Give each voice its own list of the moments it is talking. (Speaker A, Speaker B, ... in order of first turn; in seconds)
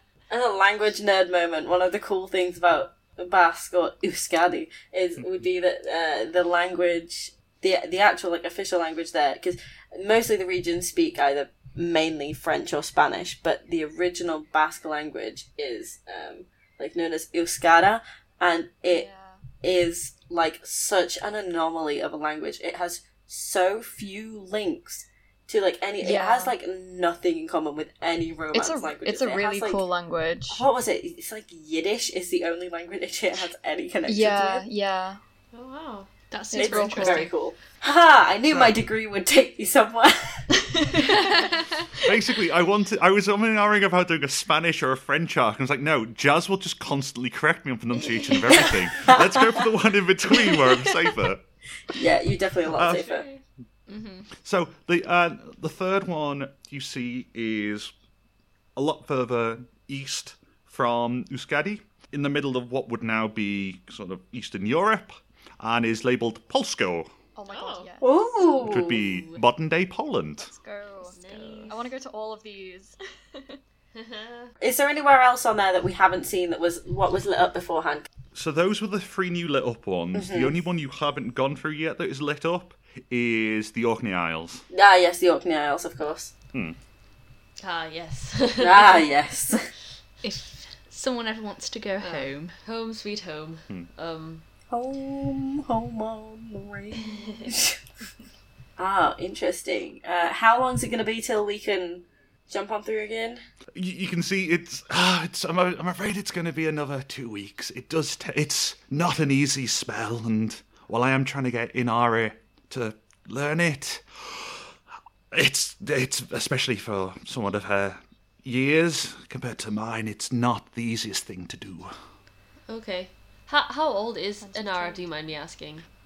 Speaker A: 0.3-19.1, 19.6-29.9, 30.5-34.6, 36.5-40.4, 49.0-49.5, 51.9-53.3, 68.0-69.0, 74.6-78.1, 80.2-80.5, 84.7-86.3, 88.6-89.7, 94.7-97.8, 98.8-103.4
Speaker B: 18.9-19.4, 26.0-26.6, 28.5-30.7, 34.1-35.2, 36.5-37.4, 67.3-68.8, 70.4-73.6, 124.4-125.3
Speaker C: 35.5-36.1, 53.0-53.4, 67.5-67.9, 71.0-71.9, 74.0-74.5, 87.6-89.1, 92.0-94.5, 122.7-125.9
Speaker D: 36.3-37.3, 53.9-54.3, 67.5-67.8, 90.2-92.6
Speaker E: 38.5-38.7, 42.0-51.5, 52.8-53.2, 54.4-57.9, 58.8-67.1, 68.7-70.5, 78.3-84.7, 103.7-114.7, 115.3-122.0